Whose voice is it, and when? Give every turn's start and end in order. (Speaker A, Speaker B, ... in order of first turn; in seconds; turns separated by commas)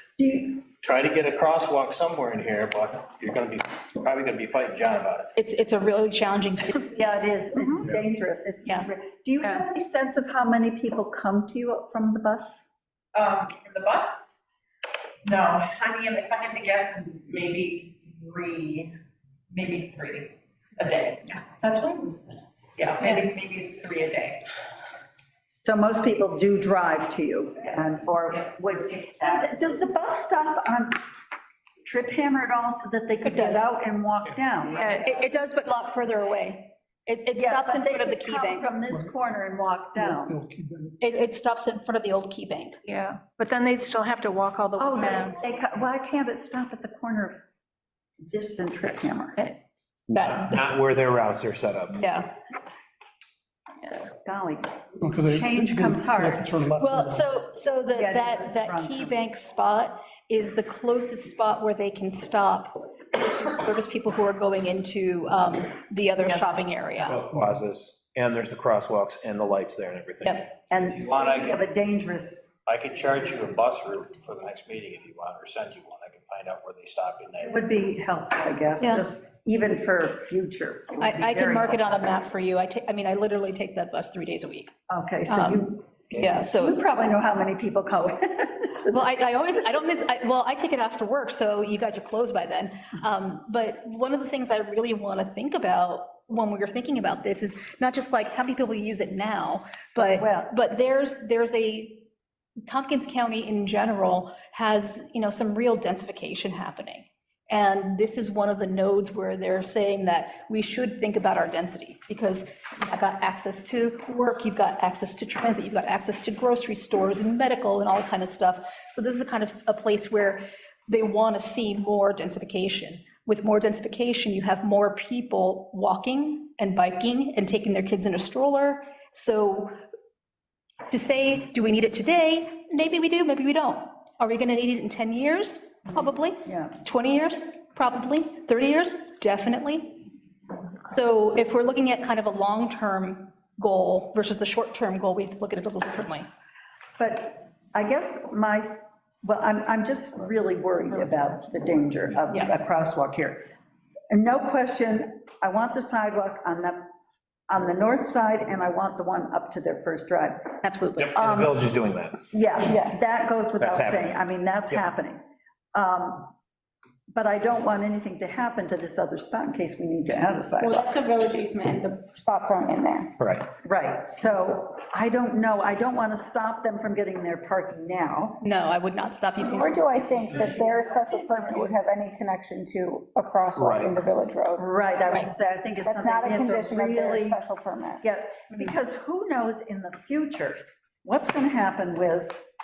Speaker A: 0.2-0.6, Speaker B: 0.7-5.3, Speaker C: 5.4-7.0, Speaker A: 6.9-12.7, Speaker D: 13.2-14.3, Speaker D: 15.2-18.9, Speaker D: 19.5-22.3, Speaker D: 22.8-24.4, Speaker A: 25.6-31.0, Speaker D: 27.6-29.8, Speaker A: 31.8-35.3, Speaker C: 33.2-33.7, Speaker E: 34.7-35.2, Speaker C: 34.8-38.7, Speaker A: 37.3-40.4, Speaker F: 40.0-40.9, Speaker C: 41.0-42.8, Speaker E: 42.9-45.4, Speaker A: 44.8-47.4, Speaker A: 48.2-49.5, Speaker C: 50.1-50.7, Speaker G: 50.1-52.1, Speaker C: 52.0-52.3, Speaker A: 54.2-56.5, Speaker F: 55.0-57.2, Speaker C: 56.8-67.2, Speaker A: 57.9-59.2, Speaker D: 66.2-66.7, Speaker G: 67.0-71.0, Speaker C: 70.2-70.5, Speaker A: 70.7-73.0, Speaker B: 71.1-71.6, Speaker B: 72.7-77.6, Speaker A: 77.4-82.0, Speaker C: 78.8-79.1, Speaker C: 81.0-84.7, Speaker A: 84.9-89.0, Speaker C: 85.3-86.8, Speaker C: 88.8-102.1, Speaker A: 100.0-100.5, Speaker C: 102.7-129.8, Speaker C: 130.9-140.1, Speaker A: 136.4-136.8, Speaker C: 140.8-146.3, Speaker A: 147.0-153.5, Speaker C: 152.3-152.6, Speaker A: 154.1-156.8, Speaker A: 157.5-160.5, Speaker C: 160.6-161.1, Speaker G: 161.0-162.2, Speaker A: 161.2-161.6, Speaker A: 162.3-165.2, Speaker H: 162.6-163.0, Speaker G: 163.6-164.8, Speaker A: 165.7-166.3, Speaker A: 167.1-170.9, Speaker H: 170.6-173.1, Speaker G: 173.2-173.5, Speaker A: 173.7-178.4, Speaker C: 178.4-179.9, Speaker H: 179.4-184.6, Speaker G: 183.6-183.9, Speaker A: 184.6-187.4, Speaker H: 185.8-188.0, Speaker A: 188.0-192.4